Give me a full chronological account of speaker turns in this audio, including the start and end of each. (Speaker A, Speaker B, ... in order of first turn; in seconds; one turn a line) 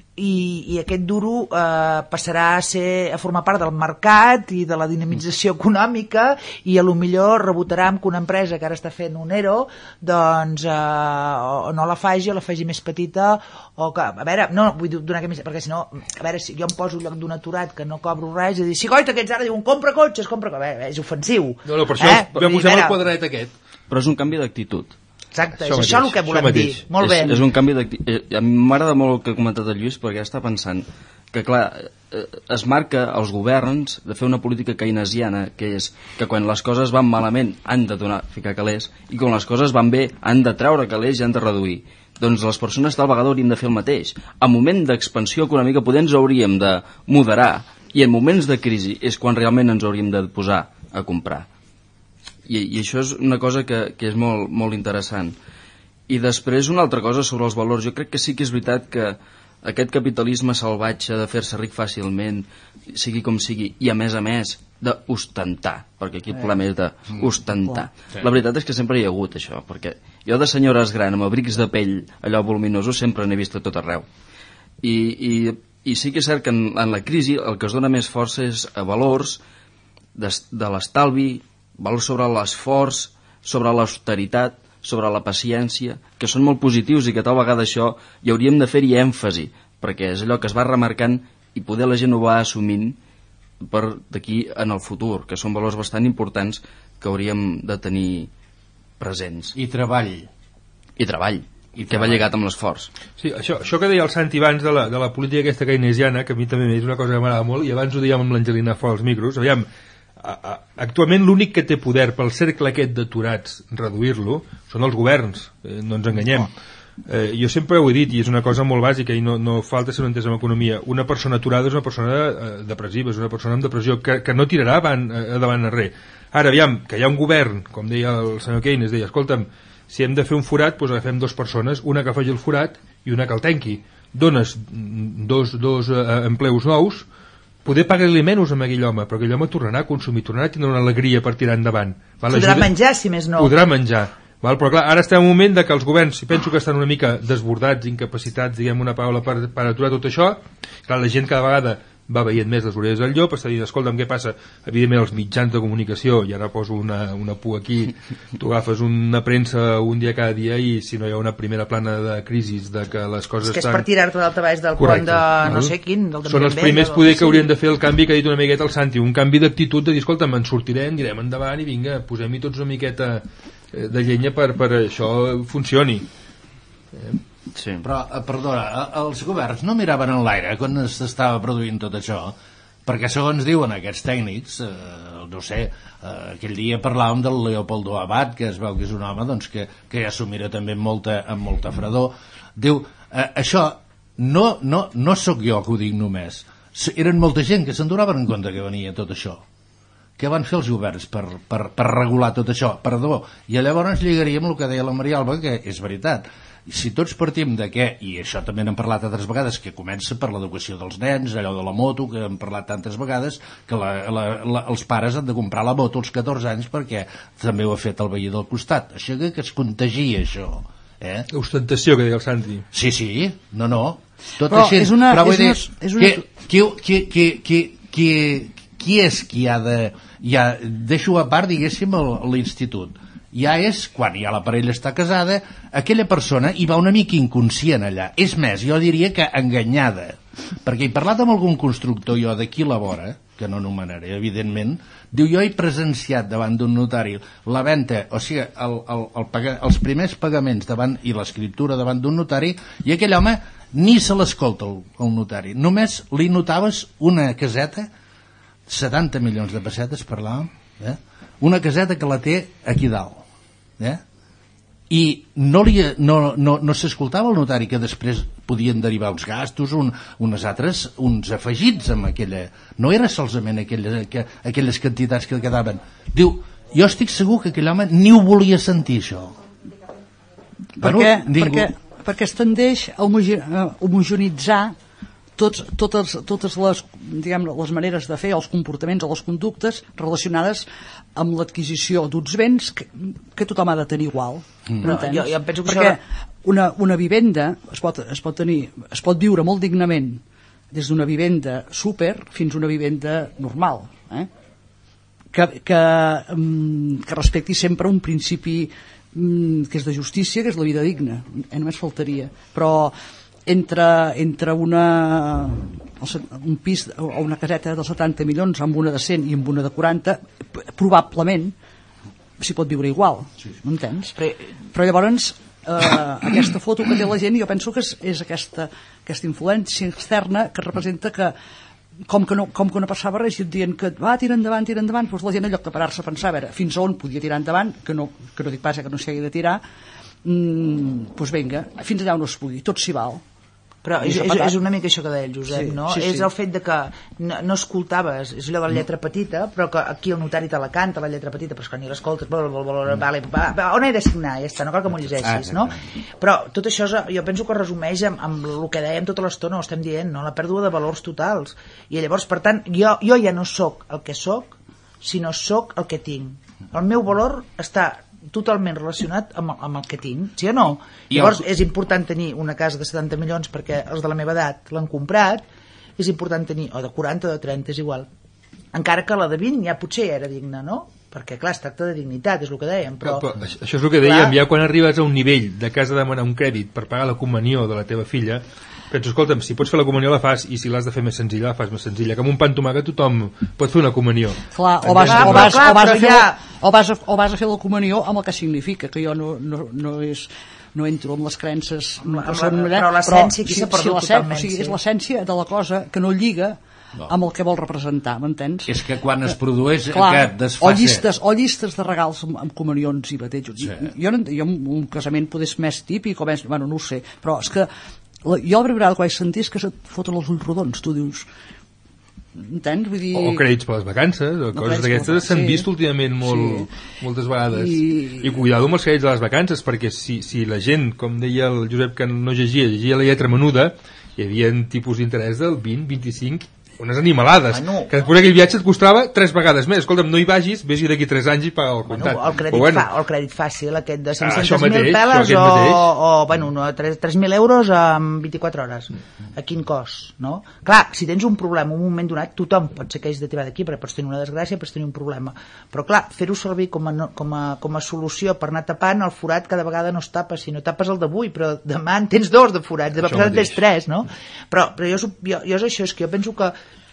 Speaker A: 0.2-23.0
Speaker B: 21.7-23.5
Speaker C: 23.9-24.9
Speaker A: 25.3-27.4
Speaker B: 25.6-26.9
Speaker C: 27.0-51.5
Speaker C: 52.5-55.4
Speaker C: 56.1-74.1
Speaker C: 74.8-79.4
Speaker C: 80.2-93.0
Speaker C: 93.6-98.3
Speaker C: 99.0-99.5
Speaker D: 99.5-100.3
Speaker C: 101.0-102.9
Speaker D: 101.8-102.3
Speaker B: 103.2-109.7
Speaker B: 110.2-116.5
Speaker B: 117.1-137.1
Speaker B: 137.7-142.7
Speaker A: 142.3-143.6
Speaker B: 143.4-163.9
Speaker A: 163.4-167.5
Speaker B: 164.8-165.7
Speaker B: 166.3-176.1
Speaker C: 177.6-177.9
Speaker D: 177.8-199.4
Speaker D: 200.2-221.3
Speaker B: 221.3-222.7
Speaker D: 222.7-257.9
Speaker E: 224.5-226.3
Speaker D: 258.7-263.2
Speaker D: 264.9-279.4
Speaker E: 280.8-284.8
Speaker D: 280.8-281.7
Speaker E: 285.4-304.3
Speaker A: 294.8-296.0
Speaker E: 305.3-312.9
Speaker E: 313.5-321.6
Speaker E: 322.4-324.2
Speaker E: 324.7-331.3
Speaker E: 332.1-339.6
Speaker E: 340.2-343.2
Speaker A: 343.8-378.1
Speaker E: 344.0-344.6
Speaker E: 345.5-346.3
Speaker D: 354.9-355.8
Speaker D: 371.1-371.4
Speaker A: 378.7-383.3
Speaker B: 383.0-395.6
Speaker A: 384.0-384.4
Speaker E: 394.5-408.8
Speaker A: 395.0-396.4
Speaker A: 402.0-404.8
Speaker D: 408.7-411.1
Speaker E: 409.9-417.7
Speaker E: 418.2-421.3
Speaker E: 422.4-423.4
Speaker B: 423.1-442.9
Speaker E: 424.5-425.7
Speaker E: 426.2-426.7
Speaker E: 427.5-428.3
Speaker A: 437.5-437.9
Speaker A: 441.9-466.5
Speaker B: 444.2-445.9
Speaker B: 463.0-463.6